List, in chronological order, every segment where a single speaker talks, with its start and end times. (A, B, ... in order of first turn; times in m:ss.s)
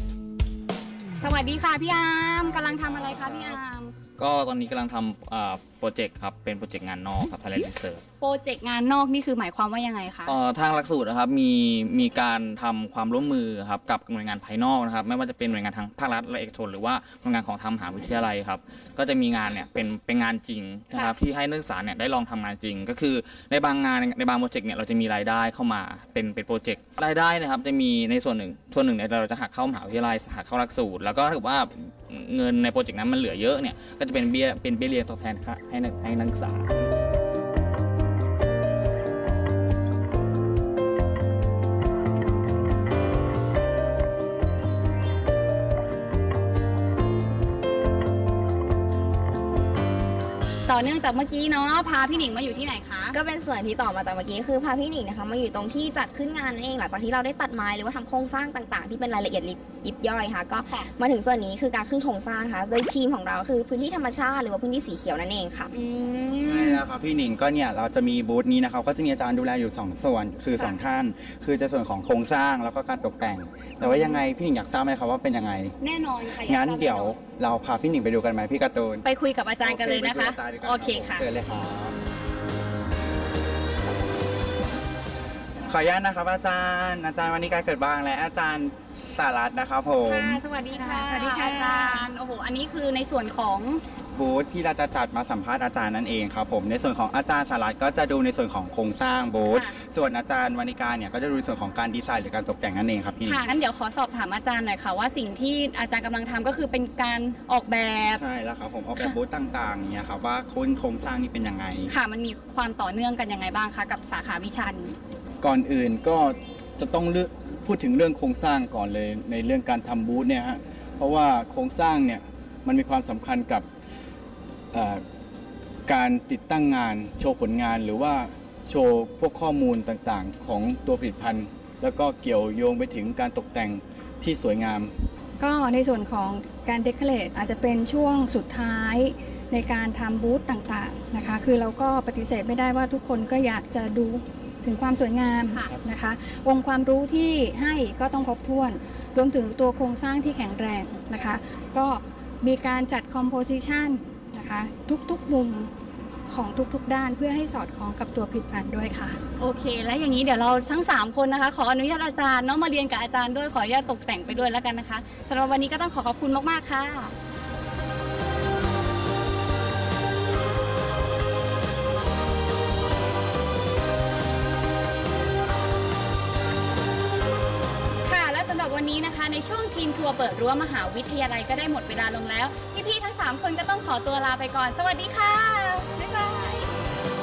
0:01.2-0:03.9 A
0:02.5-0:03.6 B
0:04.2-0:08.0 B
0:08.2-0:10.4 A
0:10.3-0:36.7 B
0:50.7-0:53.2 A
0:53.1-1:05.7 C
1:05.7-1:06.8 A
1:06.4-1:15.8 D
1:13.9-1:14.2 A
1:15.8-1:17.2 A
1:16.4-1:19.1 D
1:19.0-1:21.3 A
1:19.6-1:22.0 D
1:25.6-1:30.4 D
1:30.0-1:33.8 A
1:30.8-1:32.0 E
1:34.1-1:43.4 D
1:43.2-1:48.2 A
1:48.1-1:51.9 D
1:51.9-1:55.0 A
1:55.4-2:03.7 F
2:04.7-2:05.0 F
2:05.9-2:15.1 F
2:15.4-2:35.7 E
2:36.3-2:39.2 E
2:39.4-2:47.1 A
2:58.0-3:06.7 A